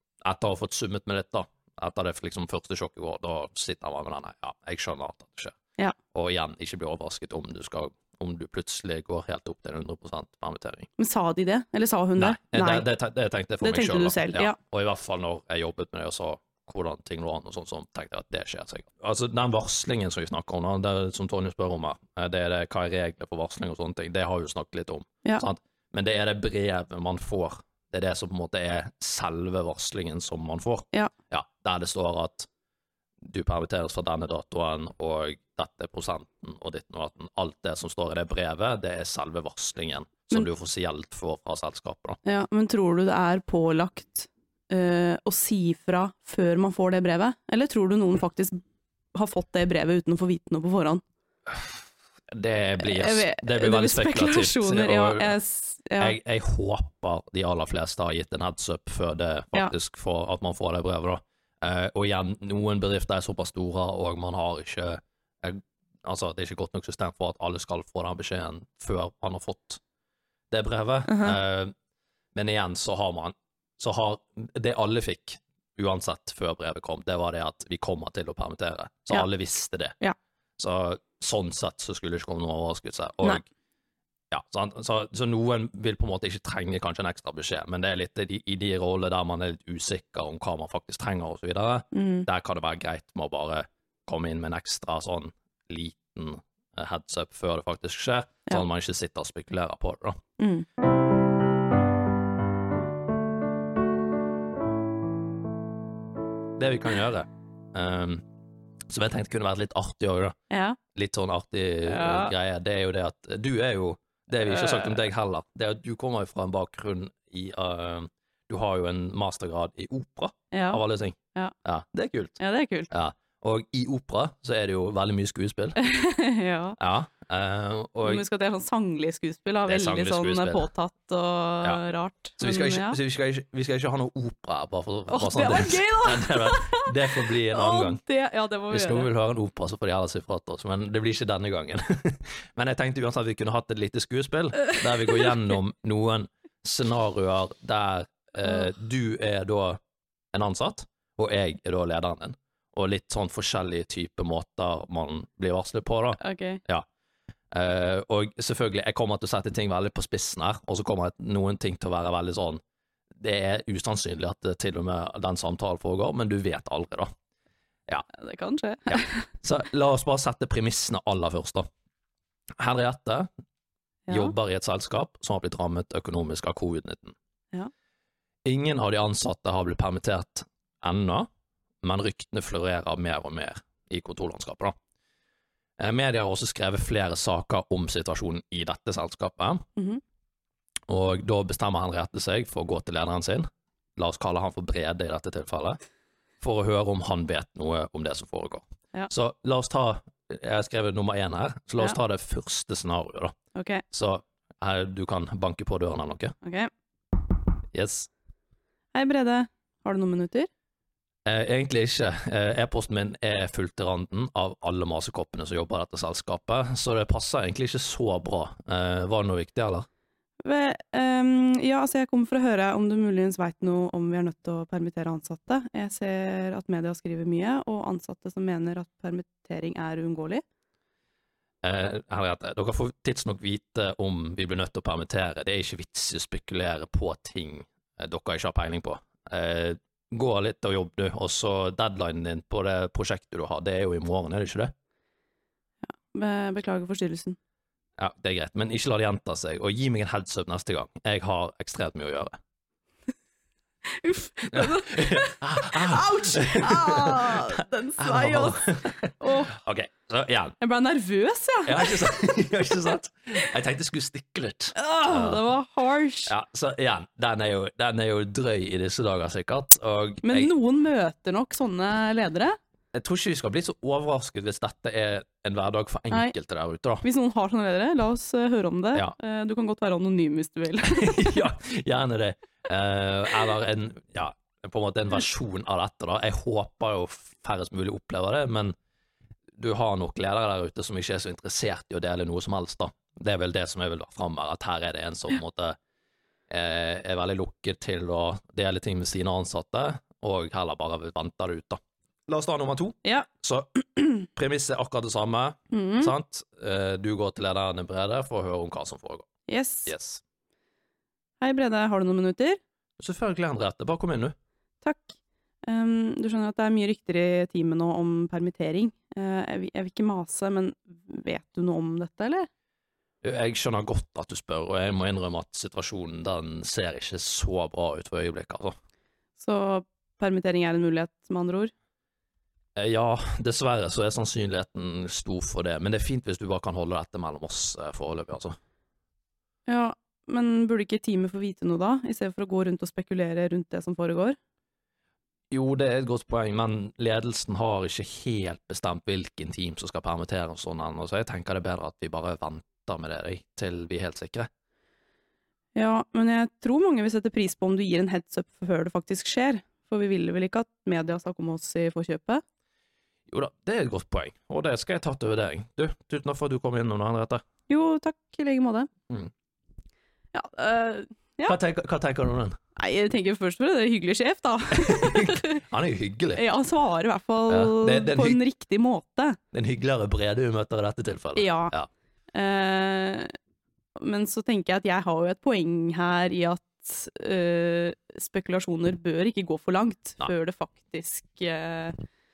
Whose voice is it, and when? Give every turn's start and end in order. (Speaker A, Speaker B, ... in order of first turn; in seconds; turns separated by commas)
Speaker A: 0.2-5.6, Speaker A: 6.1-10.9, Speaker B: 11.0-12.9, Speaker A: 12.2-32.5, Speaker B: 13.6-14.6, Speaker A: 33.2-42.2, Speaker B: 42.2-48.6, Speaker B: 49.1-51.0, Speaker A: 52.3-55.4, Speaker B: 52.8-56.2, Speaker A: 56.0-69.8, Speaker A: 70.5-71.7, Speaker B: 71.1-71.4, Speaker A: 72.3-80.0, Speaker A: 80.6-83.5, Speaker A: 84.3-100.2, Speaker B: 91.9-92.3, Speaker B: 100.4-100.7, Speaker A: 106.6-108.2, Speaker A: 108.9-110.4, Speaker B: 110.5-110.8, Speaker A: 110.9-125.8, Speaker B: 111.9-112.3, Speaker B: 114.5-115.0, Speaker B: 120.5-120.8, Speaker B: 122.4-122.9, Speaker B: 125.8-126.8, Speaker A: 126.8-128.2, Speaker B: 128.0-133.0, Speaker A: 129.7-130.7, Speaker A: 132.4-138.0, Speaker B: 135.1-139.1, Speaker A: 138.7-149.8, Speaker B: 145.0-145.3, Speaker A: 150.3-156.9, Speaker B: 156.2-156.6, Speaker A: 157.5-162.6, Speaker A: 163.2-167.1, Speaker B: 168.1-169.2, Speaker A: 168.9-171.7, Speaker A: 172.6-173.3, Speaker B: 174.1-174.3, Speaker A: 174.1-177.2, Speaker A: 178.4-181.3, Speaker A: 181.8-184.8, Speaker A: 185.8-189.7, Speaker A: 190.9-195.8, Speaker A: 196.4-203.3, Speaker B: 203.6-203.8, Speaker A: 203.9-206.3, Speaker B: 206.4-206.7, Speaker A: 207.7-208.1, Speaker B: 208.9-210.5, Speaker A: 211.2-219.9, Speaker B: 220.4-230.4, Speaker A: 231.6-244.7, Speaker B: 245.8-247.4, Speaker A: 248.0-252.4, Speaker B: 253.8-259.6, Speaker A: 254.5-260.6, Speaker B: 260.6-262.2, Speaker A: 261.6-265.4, Speaker B: 264.8-266.3, Speaker A: 266.3-270.5, Speaker B: 270.2-272.6, Speaker A: 272.9-277.0, Speaker B: 277.0-281.4, Speaker A: 280.8-288.8, Speaker A: 289.6-295.8, Speaker A: 296.5-309.3, Speaker B: 305.7-306.1, Speaker B: 309.5-309.9, Speaker A: 309.9-310.2, Speaker B: 311.4-312.6, Speaker A: 313.0-314.4, Speaker B: 314.8-322.5, Speaker A: 323.2-328.7, Speaker B: 329.4-331.7, Speaker A: 332.8-338.6, Speaker B: 339.7-344.4, Speaker A: 345.5-354.5, Speaker B: 355.8-362.4, Speaker A: 363.3-367.4, Speaker B: 367.7-368.9, Speaker B: 370.3-371.6, Speaker A: 371.5-372.6, Speaker B: 372.8-375.6, Speaker A: 374.8-376.4, Speaker B: 376.4-379.4, Speaker A: 377.5-378.4, Speaker A: 379.5-381.9, Speaker B: 381.4-381.7, Speaker B: 382.3-383.4, Speaker B: 384.0-392.0